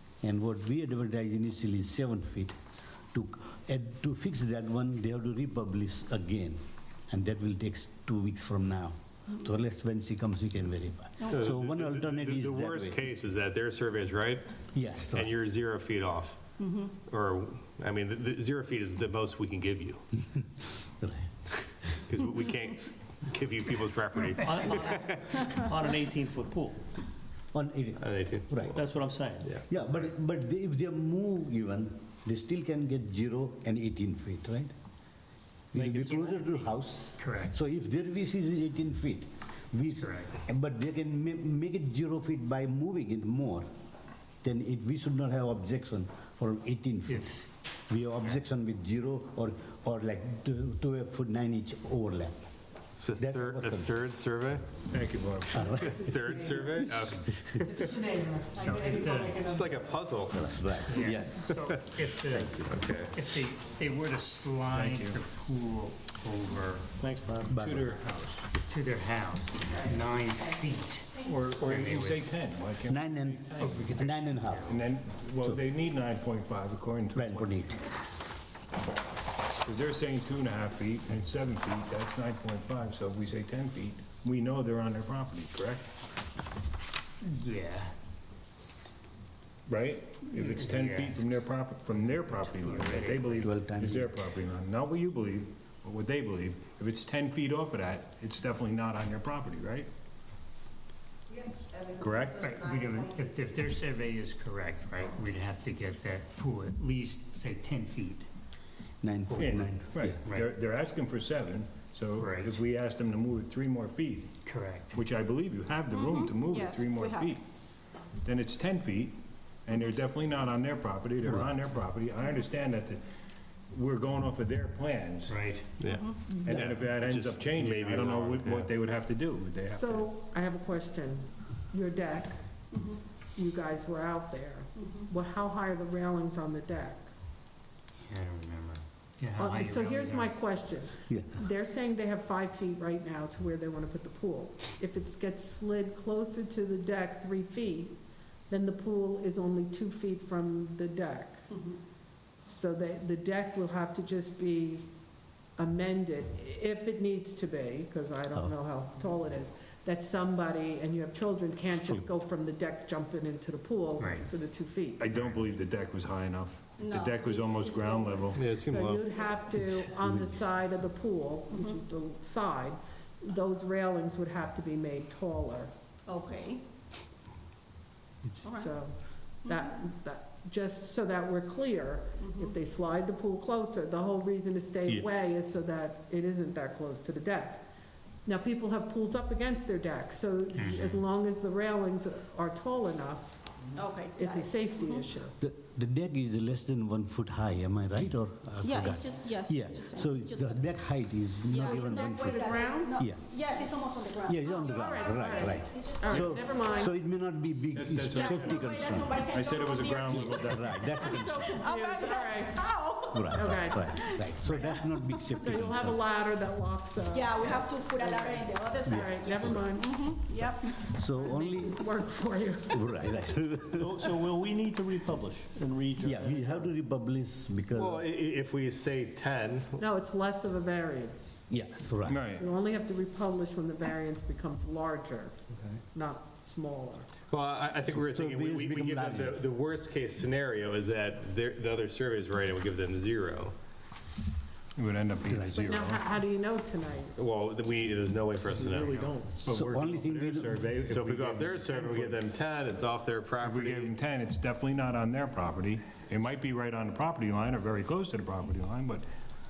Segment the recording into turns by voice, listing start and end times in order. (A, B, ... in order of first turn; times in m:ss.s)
0:00.2-0:02.6 A
0:03.1-0:13.0 A
0:11.3-0:20.0 B
0:14.7-0:15.4 A
0:16.6-0:16.9 C
0:20.4-0:22.0 A
0:22.0-0:25.5 B
0:24.4-0:26.8 D
0:27.5-0:28.8 A
0:28.0-0:28.9 B
0:28.7-0:30.0 D
0:29.7-0:34.7 A
0:35.7-0:43.7 A
0:35.8-0:36.2 B
0:37.2-0:37.5 E
0:39.9-0:40.3 E
0:44.4-0:52.4 A
0:47.1-0:47.4 E
0:53.0-0:54.9 B
0:53.2-0:54.0 A
0:54.9-0:55.7 F
0:55.5-0:55.9 A
0:55.7-0:56.9 G
0:55.8-0:57.9 B
0:57.6-1:00.0 G
0:58.5-0:59.5 E
0:59.5-1:00.7 B
1:00.3-1:01.7 A
1:00.8-1:06.9 E
1:01.5-1:01.8 B
1:02.6-1:03.2 B
1:04.7-1:05.2 F
1:07.0-1:07.7 D
1:07.4-1:08.0 A
1:07.6-1:07.9 F
1:07.8-1:12.2 E
1:11.2-1:13.8 F
1:12.9-1:14.7 A
1:13.6-1:14.8 E
1:14.6-1:17.6 F
1:17.2-1:17.8 A
1:19.6-1:25.9 F
1:27.2-1:27.9 E
1:29.7-1:39.9 F
1:30.3-1:33.5 E
1:33.4-1:34.2 A
1:41.9-1:42.4 F
1:42.3-1:48.3 E
1:49.0-1:50.2 A
1:49.3-1:50.5 E
1:49.4-1:54.3 F
1:52.2-1:52.6 E
1:54.4-1:55.0 E
1:54.9-1:57.4 F
1:55.9-1:57.4 C
1:58.2-2:03.0 F
2:03.7-2:05.4 F
2:05.3-2:05.7 E
2:05.8-2:08.7 B
2:05.9-2:06.3 C
2:06.3-2:06.5 G
2:06.3-2:10.1 F
2:09.6-2:12.4 G
2:12.7-2:13.0 C
2:13.4-2:17.1 G
2:14.8-2:15.1 C
2:18.1-2:20.3 E
2:19.4-2:28.0 G
2:21.1-2:21.4 A
2:28.5-2:31.5 G
2:32.4-2:34.9 G
2:35.6-2:45.0 G
2:44.0-2:44.3 E
2:45.0-2:48.4 F
2:45.1-2:45.4 E
2:46.8-2:48.3 C
2:48.3-2:49.1 B
2:48.6-2:55.7 G
2:48.9-2:49.5 C
2:50.0-2:50.3 A
2:51.5-2:51.8 C
2:56.1-2:56.6 C
2:58.4-2:58.7 C
2:58.5-3:07.6 G
2:59.5-2:59.7 C
3:02.2-3:02.6 C
3:08.2-3:13.5 G
3:10.6-3:11.0 E
3:13.8-3:15.1 C
3:14.1-3:15.3 G
3:15.4-3:23.2 A
3:18.6-3:20.7 C
3:21.4-3:26.8 C
3:22.1-3:22.9 G
3:24.1-3:29.2 A
3:24.7-3:26.9 G
3:27.7-3:31.1 F
3:28.1-3:33.3 C
3:30.0-3:31.7 A
3:31.1-3:34.8 G
3:33.1-3:36.0 A
3:33.9-3:34.3 C
3:35.0-3:35.2 C
3:35.4-3:43.1 G
3:37.1-3:40.9 C
3:38.8-3:39.6 A
3:40.7-3:41.9 A
3:42.7-3:44.2 A
3:43.7-3:46.7 D
3:46.0-3:48.1 A
3:47.7-3:49.8 B
3:49.8-3:51.5 G
3:51.5-3:52.2 A
3:52.1-3:52.5 F
3:52.4-3:57.1 G
3:57.3-4:03.6 B
3:58.0-3:59.5 A
4:04.8-4:06.1 F
4:05.3-4:05.9 A
4:05.6-4:07.2 G
4:07.2-4:09.3 B
4:08.6-4:12.2 F
4:09.5-4:10.7 A
4:10.8-4:13.9 B
4:13.4-4:19.1 F